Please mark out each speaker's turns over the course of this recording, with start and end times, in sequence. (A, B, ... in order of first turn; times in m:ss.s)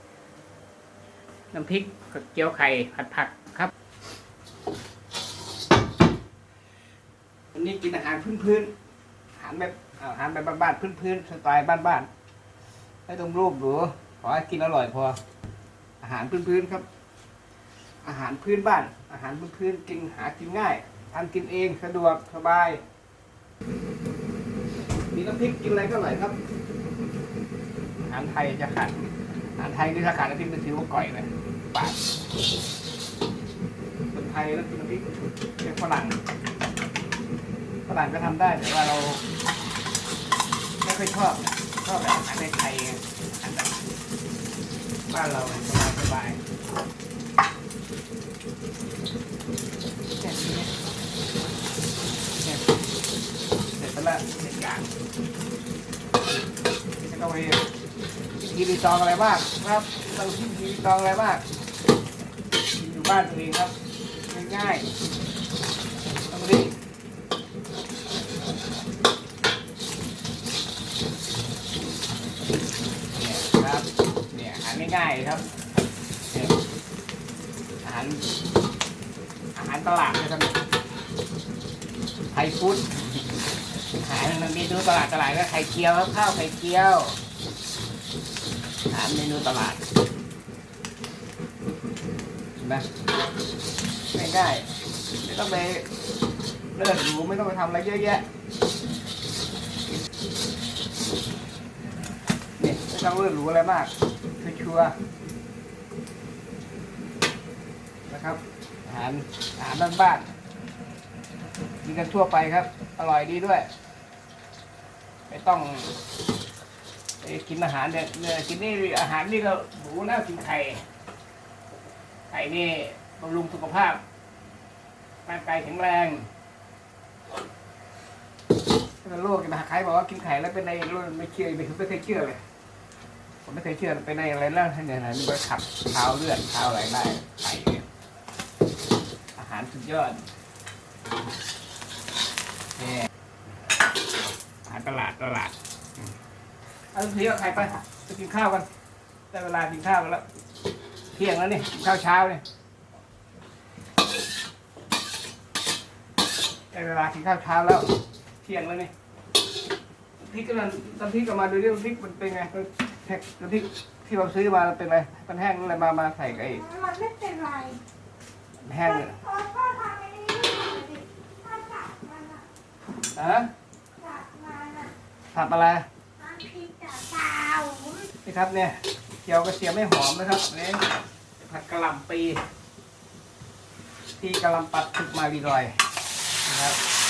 0:01.5-0:03.7 A
0:07.5-0:08.7 A
0:09.4-0:12.1 A
0:13.1-0:15.2 A
0:16.0-0:16.9 A
0:18.0-0:22.8 A
0:25.1-0:26.4 A
0:28.0-0:32.0 A
0:34.1-0:36.2 A
0:37.9-0:39.2 A
0:40.8-0:43.8 A
0:45.1-0:46.4 A
0:50.2-0:50.7 A
0:53.8-0:54.9 A
0:57.0-0:57.7 A
0:58.4-1:01.4 A
1:02.8-1:03.7 A
1:04.3-1:04.9 A
1:06.3-1:06.8 A
1:13.1-1:15.5 A
1:16.3-1:16.6 A
1:17.8-1:18.3 A
1:19.6-1:20.6 A
1:22.3-1:23.2 A
1:24.0-1:27.2 A
1:28.9-1:29.8 A
1:32.6-1:32.9 A
1:34.1-1:35.9 A
1:36.8-1:38.3 A
1:42.6-1:45.0 A
1:48.1-1:50.3 A
1:51.8-1:53.7 A
1:55.3-1:56.0 A
1:57.2-2:00.8 A
2:02.3-2:04.0 A
2:05.2-2:06.3 A
2:09.0-2:12.4 A
2:13.4-2:17.9 A
2:19.4-2:20.2 A
2:22.8-2:23.1 A
2:24.6-2:25.6 A
2:26.9-2:28.7 A
2:29.3-2:30.2 A
2:31.1-2:32.4 A
2:36.7-2:38.9 A
2:40.2-2:46.7 A
2:46.6-2:47.8 B
2:48.6-2:49.2 A
2:49.2-2:52.4 B
2:53.1-2:53.5 A
2:54.0-2:54.9 B
2:55.3-2:55.9 A
2:56.2-2:58.1 B
2:58.2-3:02.4 A
3:04.2-3:05.8 A
3:06.5-3:06.8 A